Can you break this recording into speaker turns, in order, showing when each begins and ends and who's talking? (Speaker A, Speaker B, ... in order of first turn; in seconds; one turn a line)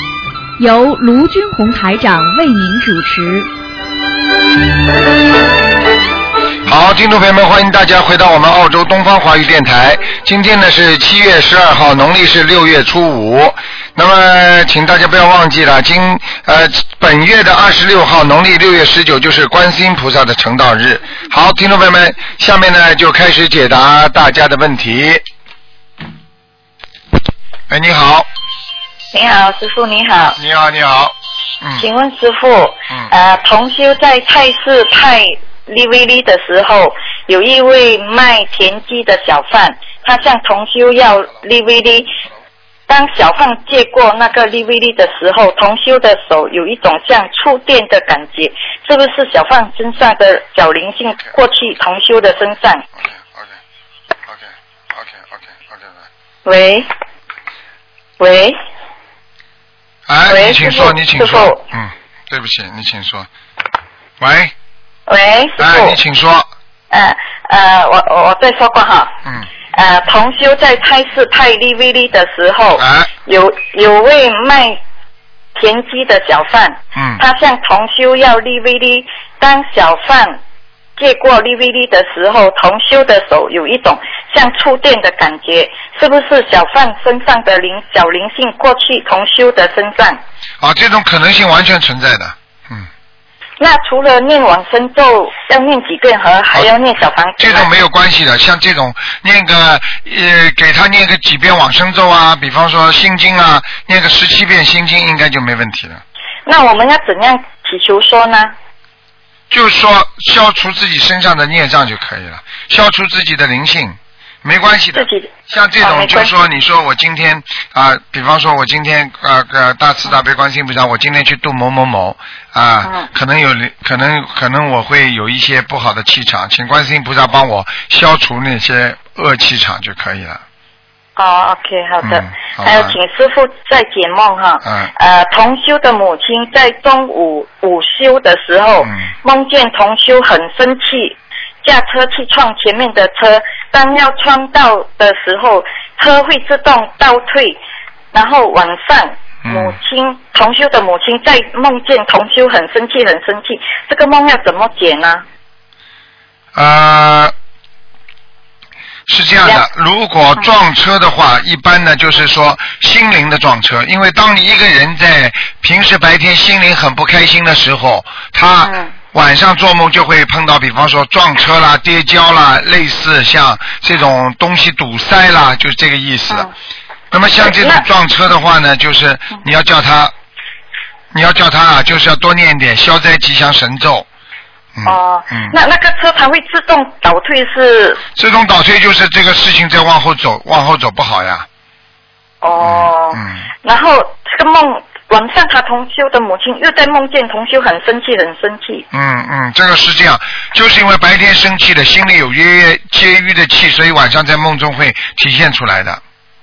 Speaker A: 0.6-3.5
Speaker B: 6.7-25.2
Speaker B: 27.7-28.3
Speaker C: 29.1-30.4
Speaker B: 30.4-31.9
Speaker C: 31.8-42.1
Speaker C: 42.9-52.9
Speaker B: 53.1-53.5
Speaker B: 54.3-56.0
Speaker C: 56.5-56.9
Speaker C: 58.2-58.6
Speaker B: 60.1-63.3
Speaker C: 60.3-61.6
Speaker B: 64.2-64.5
Speaker C: 65.1-66.0
Speaker B: 65.6-66.5
Speaker C: 66.9-69.1
Speaker C: 69.7-74.8
Speaker B: 72.8-73.1
Speaker C: 75.5-80.4
Speaker B: 77.0-77.2
Speaker C: 81.0-90.2
Speaker B: 90.6-92.9
Speaker C: 93.6-97.7
Speaker B: 97.4-106.0
Speaker C: 106.5-108.5
Speaker B: 109.5-130.4
Speaker C: 115.0-116.3
Speaker C: 131.2-147.6
Speaker B: 132.0-133.0
Speaker B: 134.6-134.9
Speaker B: 138.8-139.1
Speaker C: 148.1-155.2
Speaker B: 149.4-149.8
Speaker B: 156.6-157.3
Speaker B: 159.1-176.5
Speaker C: 168.6-168.9
Speaker B: 177.1-180.1
Speaker C: 177.4-177.8
Speaker B: 181.1-184.1
Speaker B: 184.8-185.6
Speaker C: 184.8-188.0
Speaker B: 188.2-191.5
Speaker C: 192.4-198.9
Speaker B: 192.6-193.4
Speaker B: 198.9-206.0